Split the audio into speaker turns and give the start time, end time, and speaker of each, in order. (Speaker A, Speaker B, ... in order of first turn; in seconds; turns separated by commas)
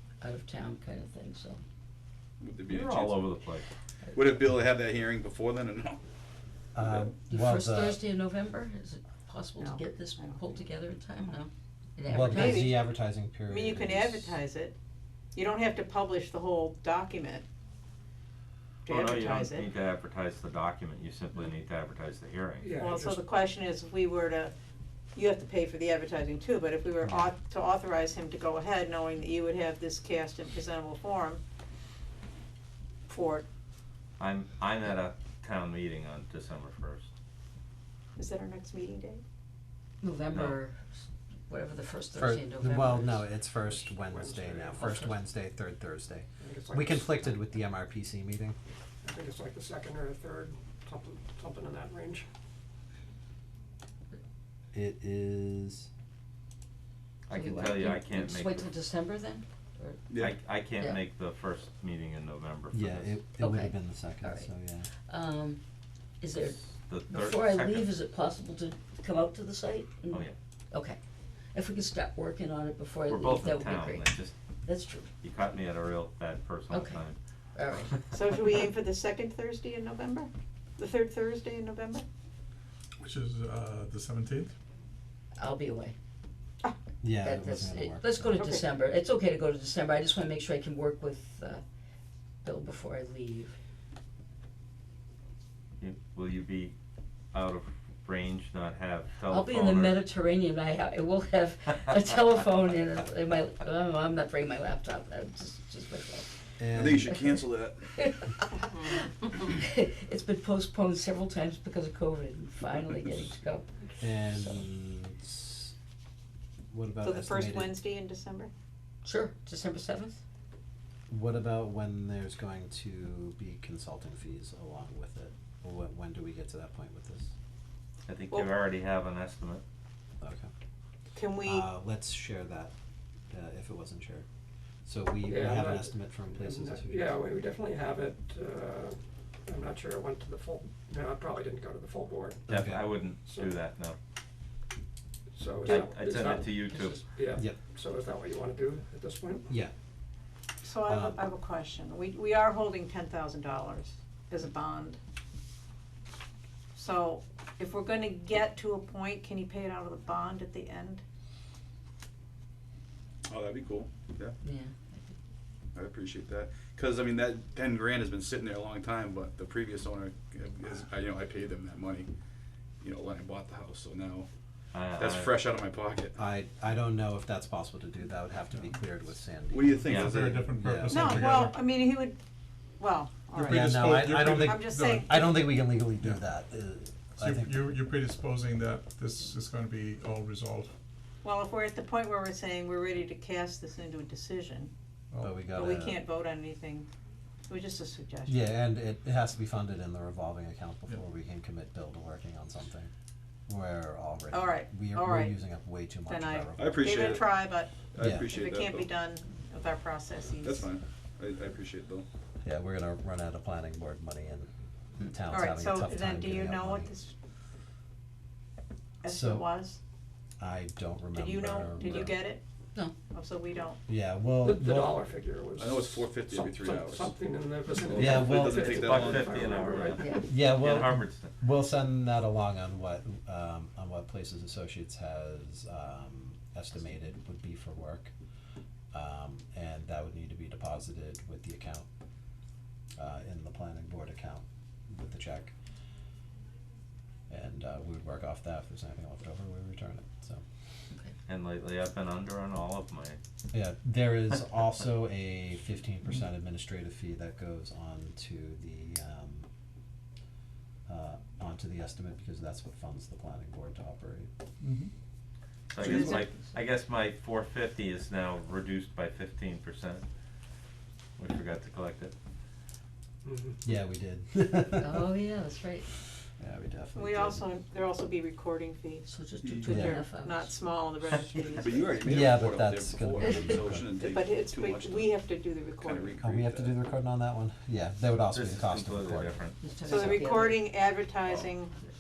Speaker A: 0.2-1.6, Speaker B: 2.4-3.3, Speaker C: 2.7-3.7, Speaker B: 4.1-6.0, Speaker D: 6.7-8.0, Speaker B: 6.8-7.1, Speaker A: 7.3-12.8, Speaker E: 9.6-10.4, Speaker D: 12.1-14.4, Speaker E: 12.3-12.8, Speaker E: 13.5-14.8, Speaker E: 15.3-17.5, Speaker E: 18.9-19.7, Speaker C: 18.9-22.8, Speaker F: 22.6-23.2, Speaker E: 22.8-24.5, Speaker E: 25.1-31.4, Speaker E: 33.1-33.5, Speaker C: 34.2-37.1, Speaker E: 38.2-39.2, Speaker A: 40.0-41.0, Speaker C: 40.3-40.6, Speaker A: 41.5-43.4, Speaker D: 42.2-48.6, Speaker F: 44.0-44.9, Speaker A: 44.8-45.1, Speaker F: 46.4-47.2, Speaker F: 49.0-52.3, Speaker D: 54.7-55.9, Speaker C: 57.3-58.7, Speaker A: 57.3-60.0, Speaker B: 60.1-60.4, Speaker C: 60.2-63.1, Speaker D: 62.7-64.9, Speaker A: 63.4-64.5, Speaker A: 65.1-65.6, Speaker A: 66.2-71.0, Speaker C: 66.4-67.9, Speaker A: 71.5-74.1, Speaker C: 73.1-74.3, Speaker A: 74.6-75.1, Speaker C: 75.2-77.2, Speaker A: 76.7-77.0, Speaker A: 77.5-78.0, Speaker E: 78.1-82.0, Speaker G: 83.0-84.5, Speaker A: 85.4-86.0, Speaker D: 87.0-88.4, Speaker A: 87.2-91.6, Speaker E: 88.4-88.6, Speaker A: 92.4-93.6, Speaker C: 95.8-96.7, Speaker C: 97.3-100.0, Speaker A: 99.3-106.5, Speaker D: 106.6-107.1, Speaker B: 106.7-107.9, Speaker A: 107.9-114.6, Speaker E: 108.5-109.1, Speaker D: 114.0-115.7, Speaker D: 116.7-117.8, Speaker E: 117.0-118.5, Speaker A: 119.0-120.2, Speaker D: 121.1-127.3, Speaker C: 128.1-129.6, Speaker D: 130.2-130.5, Speaker E: 131.2-131.7, Speaker D: 131.4-132.7, Speaker D: 133.3-134.3, Speaker D: 134.8-137.1, Speaker F: 135.2-142.5, Speaker D: 142.5-142.9, Speaker C: 142.5-144.0, Speaker F: 143.2-143.6, Speaker F: 145.3-149.5, Speaker C: 145.7-147.0, Speaker E: 145.7-146.0, Speaker E: 150.6-155.0, Speaker D: 150.8-151.2, Speaker E: 156.8-161.0, Speaker B: 163.3-164.3, Speaker A: 164.4-165.1, Speaker B: 165.7-172.1, Speaker B: 172.8-174.3, Speaker C: 174.7-175.4, Speaker B: 174.9-176.2, Speaker D: 176.2-181.5, Speaker B: 179.5-180.3, Speaker G: 179.7-181.6, Speaker C: 179.9-180.1, Speaker E: 180.9-182.2, Speaker E: 182.8-185.5, Speaker G: 183.3-185.0, Speaker D: 183.4-187.7, Speaker G: 186.0-186.3, Speaker G: 187.2-190.7, Speaker E: 191.2-194.7, Speaker G: 195.1-195.6, Speaker D: 195.2-196.1, Speaker E: 195.5-196.9, Speaker E: 197.5-198.5, Speaker D: 198.3-202.9, Speaker D: 203.5-207.2, Speaker E: 204.3-205.3, Speaker E: 206.1-210.7, Speaker B: 206.6-208.9, Speaker D: 208.0-208.3, Speaker B: 210.4-212.1, Speaker D: 212.4-216.9, Speaker E: 215.3-217.1, Speaker E: 219.0-219.8, Speaker D: 219.1-219.5, Speaker D: 220.4-222.2, Speaker E: 221.1-222.4, Speaker E: 223.1-223.8, Speaker D: 223.9-225.0, Speaker F: 224.4-230.4, Speaker B: 225.6-227.2, Speaker B: 227.7-229.9, Speaker D: 227.9-228.7, Speaker C: 228.3-231.3, Speaker D: 230.3-238.1, Speaker D: 238.9-241.9, Speaker D: 243.0-245.5, Speaker D: 247.3-250.4, Speaker C: 251.3-253.2, Speaker D: 253.5-259.5, Speaker D: 260.9-264.3, Speaker G: 264.6-264.9, Speaker C: 265.7-270.1, Speaker A: 265.9-266.2, Speaker C: 271.2-272.1, Speaker F: 273.2-273.6, Speaker D: 273.6-275.1, Speaker A: 274.8-275.9, Speaker D: 276.4-277.5, Speaker E: 277.0-279.1, Speaker A: 279.1-280.6, Speaker B: 279.4-279.8, Speaker D: 279.6-280.0, Speaker E: 279.7-282.2, Speaker C: 281.1-281.6, Speaker B: 281.5-285.2, Speaker D: 282.0-283.9, Speaker E: 284.0-286.2, Speaker B: 285.8-286.8, Speaker D: 286.2-289.4, Speaker C: 288.3-289.6, Speaker A: 289.6-290.6, Speaker E: 289.9-291.7